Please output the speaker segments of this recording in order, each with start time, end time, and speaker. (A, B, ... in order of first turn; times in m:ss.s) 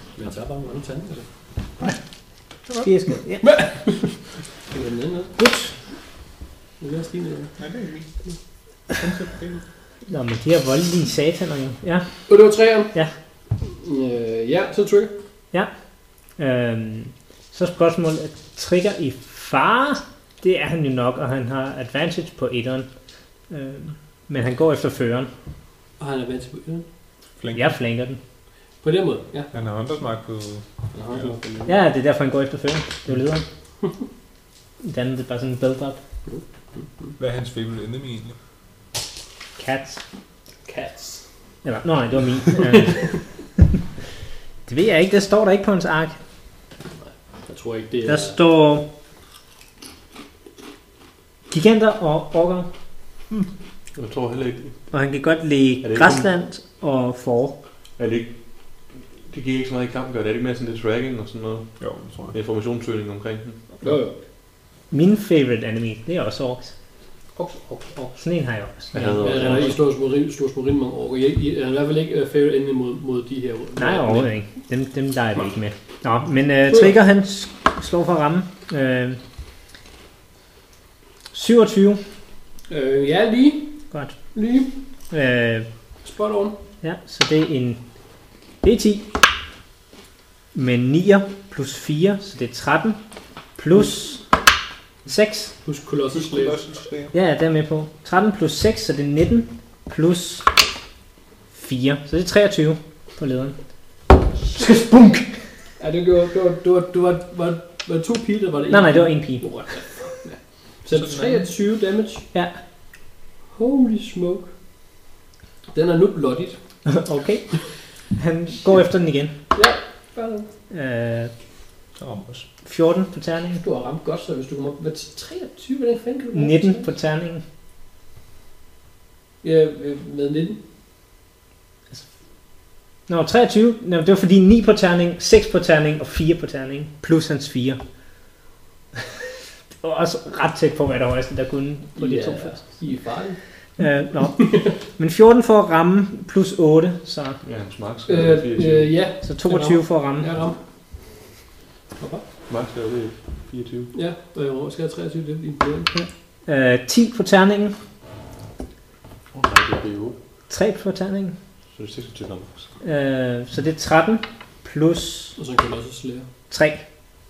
0:00.1-0:01.3 A
0:02.8-0:04.0 B
0:03.4-0:04.1 A
0:04.6-0:05.4 A
0:05.4-0:05.8 B
0:06.8-0:07.6 A
0:07.6-0:08.1 C
0:08.9-0:09.6 C
0:10.1-0:12.3 B
0:12.3-0:12.9 A
0:13.6-0:15.1 A
0:16.4-0:22.9 B
0:23.5-0:25.3 B
0:26.0-0:26.9 A
0:27.4-0:27.8 C
0:27.5-0:28.2 B
0:28.8-0:29.5 A
0:29.5-0:31.4 C
0:30.9-0:31.8 A
0:31.7-0:33.4 B
0:34.8-0:36.0 B
0:36.2-0:37.1 A
0:37.2-0:38.4 C
0:39.6-0:40.0 B
0:40.6-0:41.3 A
0:41.6-0:43.3 B
0:42.8-0:43.2 A
0:44.7-0:46.2 B
0:47.0-0:48.4 A
0:48.1-0:48.8 B
0:51.5-0:52.7 B
0:54.0-0:54.9 D
0:54.9-0:57.6 B
0:55.8-0:56.3 D
0:58.0-0:58.3 D
0:59.3-1:01.8 D
1:01.8-1:02.4 C
1:02.3-1:04.0 D
1:03.8-1:04.2 A
1:04.9-1:06.7 B
1:07.4-1:08.2 A
1:08.2-1:09.7 B
1:08.9-1:09.8 D
1:09.2-1:14.3 A
1:13.8-1:19.2 B
1:16.7-1:17.0 A
1:21.3-1:22.0 B
1:22.7-1:23.8 A
1:23.9-1:24.2 B
1:24.3-1:24.7 A
1:25.1-1:25.7 B
1:26.0-1:26.6 A
1:26.8-1:27.8 B
1:28.6-1:29.0 B
1:30.5-1:33.0 B
1:33.6-1:34.2 B
1:35.1-1:35.5 B
1:35.6-1:36.6 A
1:36.1-1:37.1 C
1:37.1-1:40.5 B
1:41.5-1:43.6 B
1:44.5-1:45.4 B
1:45.8-1:52.2 A
1:48.7-1:49.4 B
1:50.9-1:51.5 C
1:53.6-1:54.5 A
1:55.7-1:56.6 A
1:56.9-1:59.3 B
1:59.5-2:00.5 A
2:00.7-2:01.3 B
2:02.0-2:02.5 C
2:02.6-2:03.6 B
2:03.6-2:06.9 A
2:06.3-2:07.4 B
2:09.4-2:10.6 A
2:13.1-2:17.8 B
2:19.8-2:22.8 B
2:22.0-2:23.4 A
2:23.8-2:27.4 B
2:24.4-2:24.8 A
2:27.4-2:28.9 D
2:28.1-2:30.6 A
2:29.2-2:30.3 B
2:32.0-2:32.2 A
2:32.5-2:33.9 D
2:33.9-2:35.9 A
2:35.9-2:37.8 B
2:39.3-2:40.2 D
2:40.5-2:41.4 B
2:41.8-2:42.6 D
2:42.8-2:45.4 B
2:45.4-2:46.3 A
2:46.5-2:46.8 B